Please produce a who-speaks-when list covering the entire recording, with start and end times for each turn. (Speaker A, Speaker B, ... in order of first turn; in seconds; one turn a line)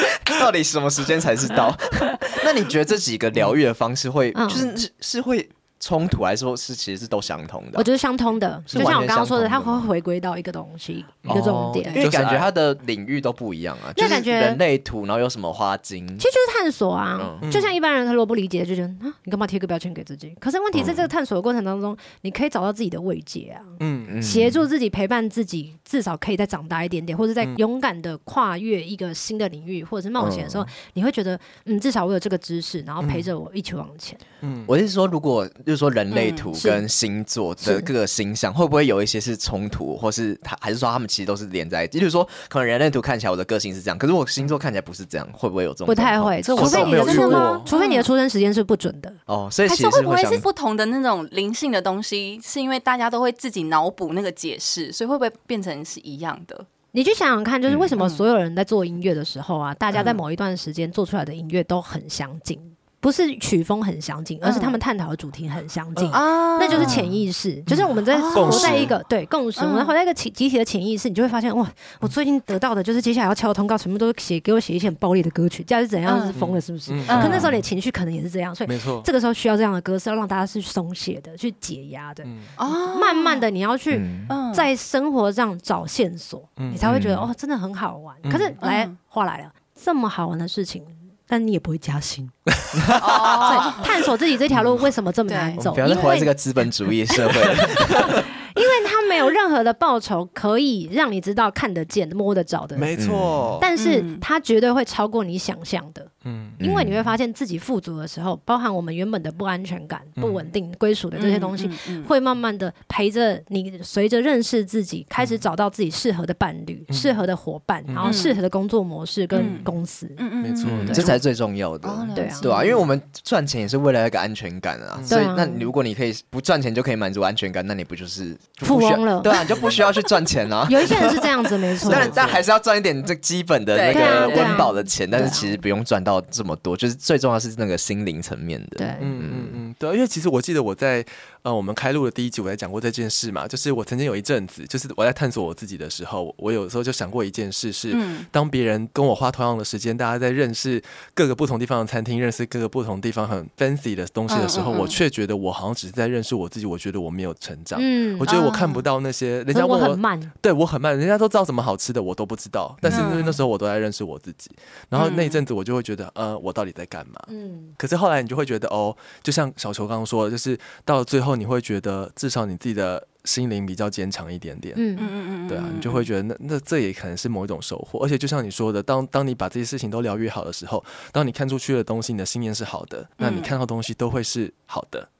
Speaker A: 0.2-7.9
Speaker B: 4.3-4.7
Speaker B: 7.8-12.0
Speaker A: 8.7-9.9
Speaker C: 11.2-12.5
Speaker A: 11.2-16.2
Speaker B: 13.9-14.6
Speaker B: 16.2-34.2
Speaker A: 17.2-17.5
Speaker C: 17.4-17.7
Speaker A: 20.7-21.1
Speaker C: 23.8-24.1
Speaker A: 24.1-24.6
Speaker A: 30.2-30.7
Speaker C: 33.0-33.3
Speaker C: 34.4-34.7
Speaker A: 34.6-47.0
Speaker D: 36.1-36.5
Speaker B: 36.6-36.8
Speaker B: 37.6-37.9
Speaker B: 45.9-49.2
Speaker C: 46.4-47.7
Speaker D: 46.6-48.1
Speaker A: 49.3-50.5
Speaker D: 49.6-56.6
Speaker B: 56.9-92.3
Speaker D: 58.0-58.2
Speaker D: 64.4-64.8
Speaker C: 66.0-68.9
Speaker D: 66.1-67.0
Speaker D: 68.1-68.9
Speaker D: 69.6-69.9
Speaker D: 76.0-76.3
Speaker C: 76.3-77.6
Speaker D: 77.0-77.5
Speaker C: 78.6-79.1
Speaker C: 82.2-82.5
Speaker D: 82.6-83.4
Speaker A: 83.9-84.3
Speaker D: 84.3-84.7
Speaker C: 86.6-87.3
Speaker A: 86.8-87.2
Speaker C: 88.2-88.6
Speaker D: 88.6-88.9
Speaker A: 92.9-93.2
Speaker B: 92.9-96.4
Speaker D: 93.0-93.9
Speaker C: 94.5-94.8
Speaker D: 95.3-96.2
Speaker A: 95.6-98.2
Speaker B: 98.0-102.9
Speaker C: 102.7-103.7
Speaker A: 103.0-103.5
Speaker B: 103.6-121.2
Speaker D: 103.8-104.2
Speaker C: 106.2-106.6
Speaker A: 106.6-107.1
Speaker C: 110.2-110.5
Speaker D: 111.2-112.1
Speaker C: 116.9-117.2
Speaker C: 117.9-118.2
Speaker D: 118.0-118.4
Speaker C: 119.3-119.7
Speaker D: 119.3-121.1
Speaker C: 120.4-121.1
Speaker A: 120.9-131.3
Speaker D: 121.8-122.8
Speaker B: 122.1-122.5
Speaker C: 124.9-125.2
Speaker B: 125.1-125.7
Speaker B: 128.6-129.4
Speaker B: 130.7-132.2
Speaker A: 131.8-139.6
Speaker C: 131.8-132.4
Speaker D: 133.7-134.7
Speaker B: 133.9-135.6
Speaker B: 138.8-139.1
Speaker C: 139.0-174.8
Speaker D: 147.9-148.3
Speaker D: 154.3-155.0
Speaker B: 157.7-158.3
Speaker D: 158.2-158.9
Speaker B: 159.5-160.3
Speaker A: 162.8-163.2
Speaker D: 162.9-163.4
Speaker D: 164.9-165.4
Speaker B: 167.3-167.8
Speaker B: 174.8-175.1
Speaker D: 175.0-176.1
Speaker C: 175.5-185.1
Speaker D: 183.2-183.5